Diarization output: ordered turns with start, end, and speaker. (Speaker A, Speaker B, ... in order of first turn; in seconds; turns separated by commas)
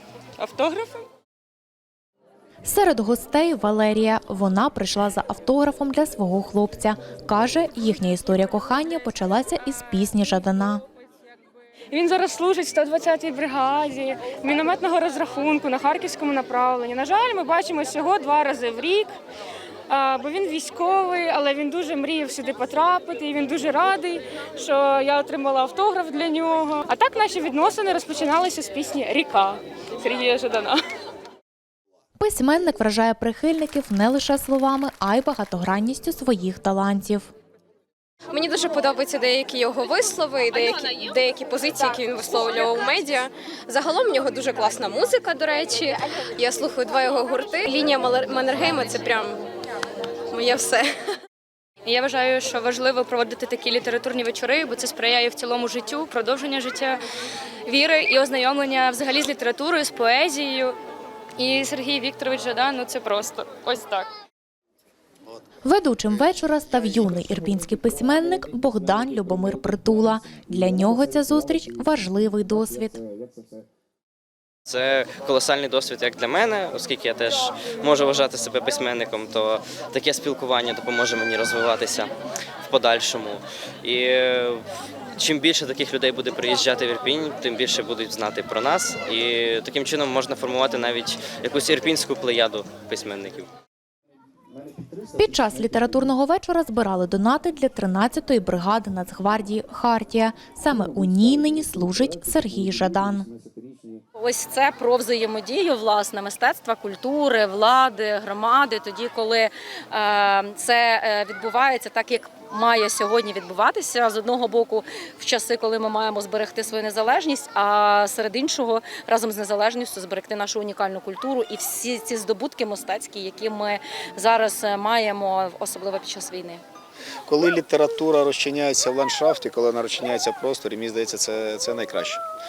Speaker A: 0.4-1.0, Speaker B: 2.6-10.8, Speaker A: 11.9-19.1, Speaker A: 19.9-30.8, Speaker B: 32.2-37.3, Speaker C: 38.3-49.4, Speaker C: 50.3-50.8, Speaker D: 51.9-57.0, Speaker D: 57.7-60.8, Speaker D: 61.4-64.1, Speaker B: 65.6-73.0, Speaker E: 74.7-82.1, Speaker E: 82.7-84.6, Speaker E: 85.2-93.5, Speaker B: 95.2-103.3, Speaker F: 104.2-126.6, Speaker G: 127.3-132.2